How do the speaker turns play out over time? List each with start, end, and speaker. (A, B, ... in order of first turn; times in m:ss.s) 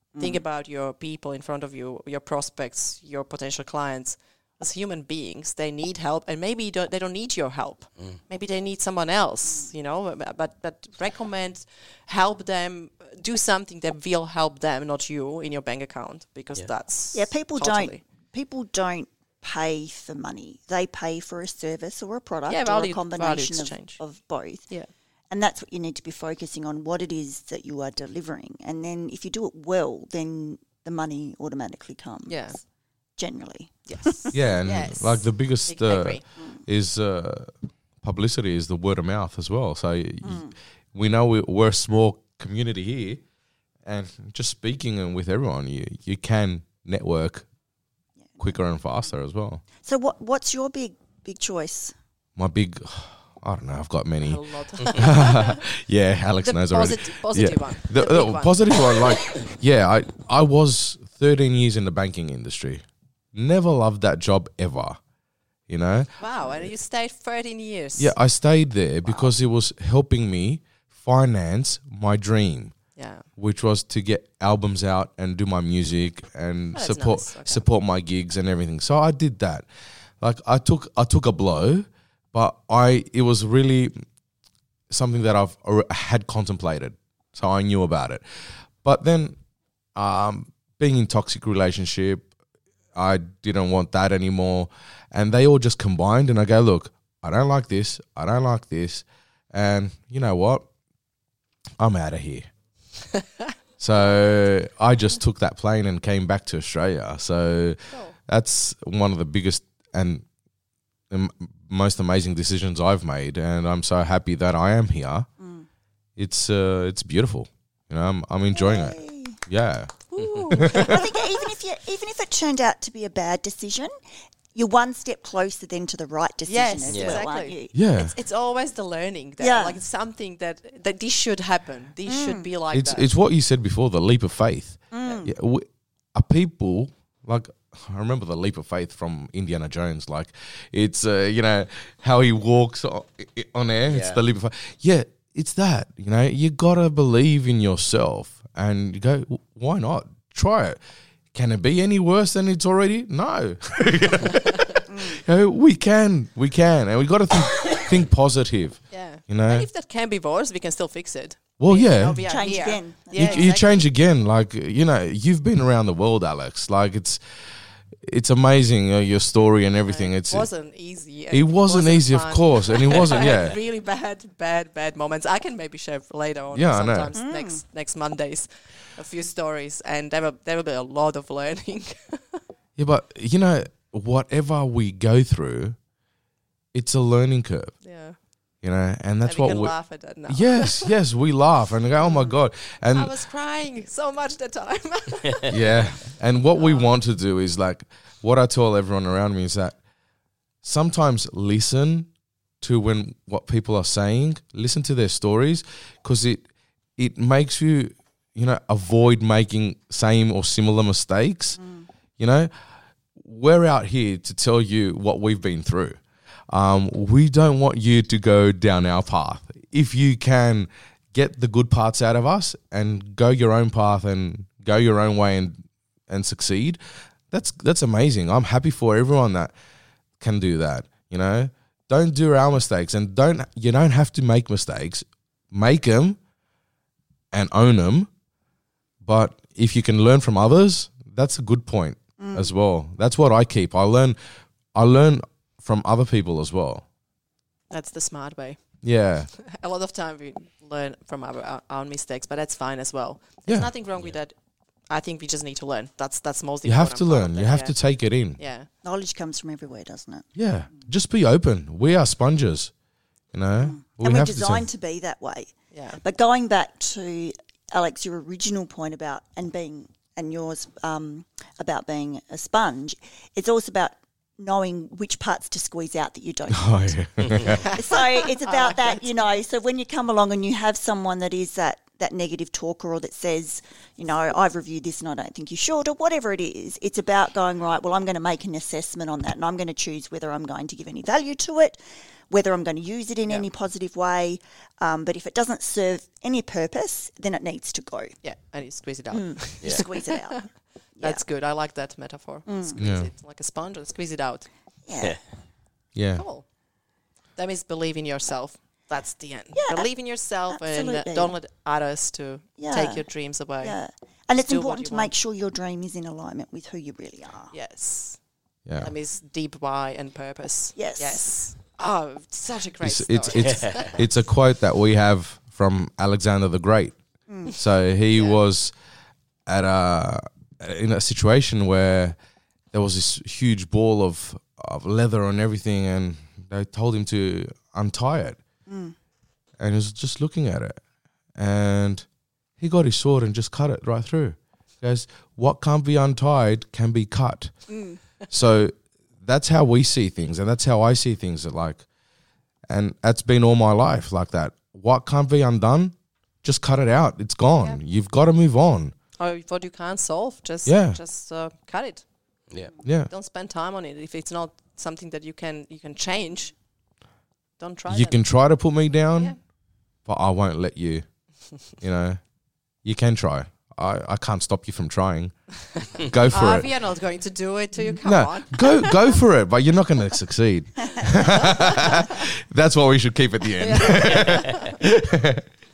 0:00.1-0:00.4 A
0:00.2-0:18.0 B
0:17.1-0:24.7 A
0:22.5-0:24.0 B
0:25.3-0:32.6 A
0:32.2-0:32.6 B
0:33.2-0:34.4 A
0:33.9-0:36.2 B
0:34.3-0:43.2 C
0:40.2-0:40.6 A
0:43.8-0:47.5 C
0:48.2-0:48.6 A
0:48.4-0:49.6 C
0:49.8-0:51.9 A
0:52.4-1:05.0 C
0:54.2-0:55.6 B
0:56.4-0:58.7 B
1:05.7-1:06.1 C
1:06.2-1:08.1 B
1:08.0-1:12.8 C
1:13.0-1:13.2 B
1:13.4-1:19.6 C
1:16.7-1:17.6 B
1:20.2-1:24.1 C
1:24.9-1:29.4 C
1:29.9-1:32.3 C
1:32.9-1:40.7 C
1:41.8-1:42.5 C
1:43.8-1:50.2 C
1:51.1-1:55.3 C
1:55.4-1:55.7 A
1:56.2-2:01.0 C
1:58.5-1:59.4 A
2:00.1-2:01.0 B
2:00.7-2:04.0 A
2:04.5-2:07.7 A
2:06.4-2:13.1 B
2:06.9-2:07.2 D
2:07.7-2:08.1 C
2:09.4-2:09.8 A
2:12.1-2:12.5 A
2:12.7-2:30.8 C
2:14.9-2:15.3 A
2:23.9-2:24.2 D
2:31.3-2:39.7 C
2:34.9-2:35.2 A
2:38.9-2:43.5 B
2:41.6-2:42.5 C
2:42.2-2:43.8 A
2:43.1-2:47.2 C
2:48.0-2:50.5 C
2:49.8-3:02.4 B
2:51.3-2:53.6 C
2:56.5-2:57.1 C
2:57.1-2:57.6 A
3:02.8-3:05.8 C
3:06.7-3:07.9 C
3:07.8-3:08.2 B
3:08.6-3:13.1 C
3:09.2-3:10.9 B
3:12.0-3:12.4 A
3:12.9-3:15.6 B
3:15.3-3:15.7 D
3:15.5-3:19.8 C
3:16.5-3:17.0 B
3:20.6-3:31.6 C
3:31.5-3:31.9 A
3:32.2-3:32.5 C
3:33.2-3:49.5 C
3:50.2-3:56.2 C
3:57.3-3:58.1 C
3:59.0-4:04.2 C
4:02.2-4:02.6 A
4:04.7-4:06.8 C
4:07.7-4:14.4 B
4:08.8-4:09.3 C
4:13.5-4:13.7 C
4:14.9-4:17.8 B
4:16.6-4:18.4 C
4:18.3-4:18.7 B
4:18.8-4:20.3 A
4:20.3-4:22.7 C
4:23.3-4:24.7 C
4:23.6-4:58.2 A
4:25.7-4:26.0 B
4:36.5-4:37.7 C
4:37.3-4:37.5 D
4:37.9-4:39.2 B
4:58.2-5:04.5 B
4:59.1-5:01.2 A
5:02.4-5:02.8 A
5:02.8-5:03.1 C
5:04.8-5:05.2 A
5:05.9-5:06.2 C
5:06.1-5:06.5 B
5:07.4-5:13.8 B
5:09.6-5:09.9 A
5:10.5-5:11.3 A
5:12.6-5:17.5 A
5:14.4-5:15.1 B
5:17.5-5:18.2 B
5:18.6-5:18.9 C
5:18.8-5:24.0 B
5:20.7-5:21.3 A
5:22.8-5:28.7 C
5:23.4-5:23.9 D
5:27.3-5:27.5 A
5:28.1-5:28.4 B
5:29.4-5:32.2 C
5:32.7-5:38.4 C
5:38.6-5:39.0 A
5:39.6-5:40.8 C
5:41.4-5:42.1 C
5:42.6-5:51.8 C
5:47.7-5:48.0 A
5:52.7-5:58.9 C
5:59.2-6:02.1 B
6:00.6-6:01.0 C
6:02.5-6:02.7 D
6:02.8-6:03.1 C
6:03.1-6:06.6 B
6:07.6-6:08.2 B
6:07.9-6:09.5 C
6:10.0-6:12.2 C
6:12.8-6:16.7 C
6:16.3-6:19.1 B
6:18.0-6:25.5 C
6:23.6-6:24.6 B